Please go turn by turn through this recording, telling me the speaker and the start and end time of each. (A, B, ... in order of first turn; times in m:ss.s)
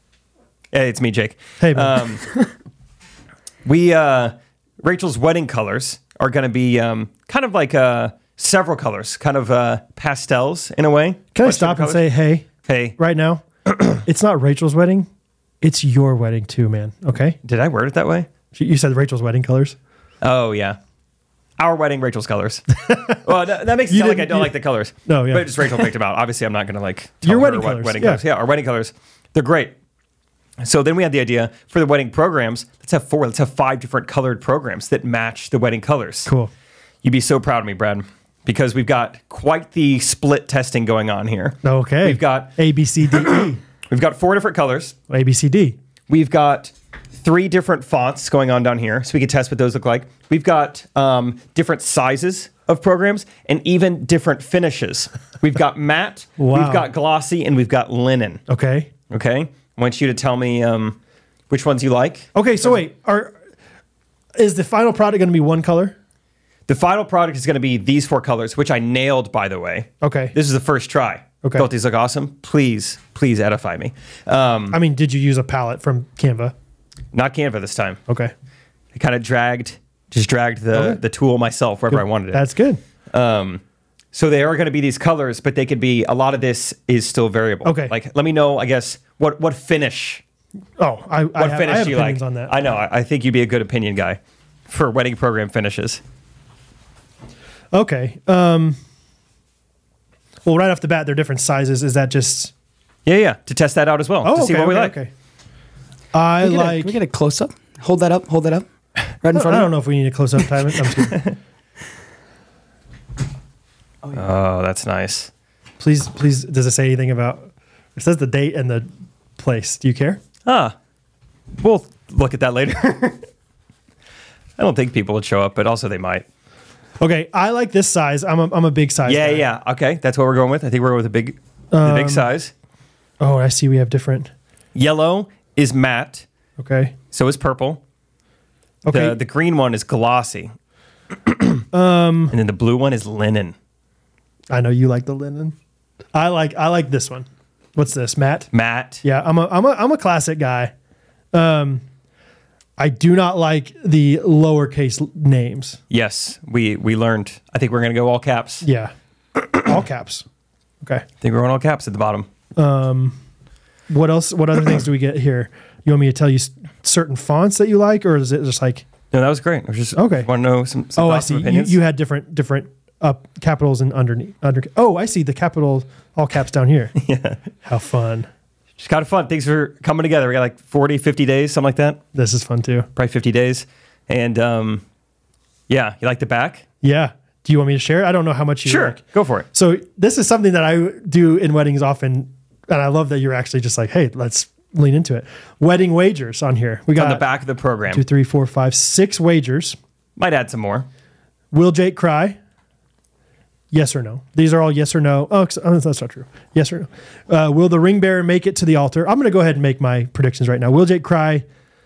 0:00.7-0:02.2 A
0:01.6-0:02.0 B
0:03.6-0:12.0 A
0:11.3-0:12.5 B
0:12.6-0:13.0 A
0:13.0-0:13.4 B
0:14.0-0:15.1 B
0:15.6-0:17.4 B
0:17.4-0:18.3 A
0:18.5-0:19.8 B
0:20.2-0:20.8 A
0:21.6-0:29.8 A
0:22.9-0:23.2 B
0:23.9-0:24.5 B
0:25.0-0:25.7 B
0:27.2-0:28.2 B
0:30.6-0:36.3 A
0:36.3-0:36.5 B
0:37.0-0:42.5 A
0:41.6-0:43.6 B
0:43.9-0:45.0 A
0:45.1-0:45.8 B
0:46.1-0:58.4 A
0:56.4-0:56.9 B
0:58.5-0:58.9 B
0:59.1-1:01.0 A
1:01.5-1:02.8 A
1:02.4-1:03.3 B
1:04.4-1:06.0 B
1:06.7-1:14.8 A
1:10.0-1:10.4 B
1:11.4-1:11.7 B
1:14.7-1:16.5 B
1:17.1-1:18.0 A
1:18.1-1:18.3 B
1:18.9-1:22.5 A
1:20.7-1:21.0 B
1:21.9-1:22.8 B
1:23.1-1:23.6 A
1:24.1-1:30.2 A
1:27.6-1:28.0 B
1:30.8-1:32.5 B
1:31.4-1:36.0 A
1:37.7-1:38.8 B
1:40.4-1:42.5 B
1:43.1-1:45.0 A
1:44.2-1:45.1 B
1:46.1-1:47.0 B
1:46.4-1:48.7 C
1:49.2-1:49.7 C
1:49.3-1:51.2 B
1:54.1-1:55.3 A
1:55.8-2:00.2 B
2:00.5-2:00.8 A
2:01.6-2:03.2 A
2:04.6-2:06.2 A
2:07.0-2:09.5 B
2:09.0-2:12.5 A
2:11.7-2:12.3 B
2:13.2-2:14.3 B
2:14.8-2:16.2 A
2:16.6-2:16.9 B
2:17.1-2:17.8 A
2:18.9-2:19.2 B
2:18.9-2:20.5 A
2:21.2-2:21.6 A
2:21.7-2:22.4 B
2:22.3-2:23.6 A
2:24.5-2:25.6 B
2:26.1-2:28.5 B
2:28.5-2:29.0 A
2:29.0-2:30.7 B
2:31.3-2:31.8 B
2:32.8-2:35.8 B
2:35.9-2:38.6 A
2:38.6-2:38.9 B
2:39.5-2:40.2 B
2:41.2-2:42.3 A
2:42.6-2:43.2 B
2:43.9-2:48.8 B
2:49.1-2:51.8 A
2:50.0-2:50.3 B
2:51.0-2:57.0 B
2:57.0-2:57.4 A
2:57.6-2:58.3 B
2:58.8-3:02.0 A
3:02.1-3:02.9 B
3:03.0-3:04.8 A
3:05.7-3:06.6 A
3:06.8-3:09.0 B
3:08.6-3:09.5 A
3:09.5-3:17.2 B
3:16.9-3:18.0 A
3:17.9-3:19.8 B
3:20.2-3:20.9 A
3:21.5-3:22.4 B
3:23.7-3:31.4 B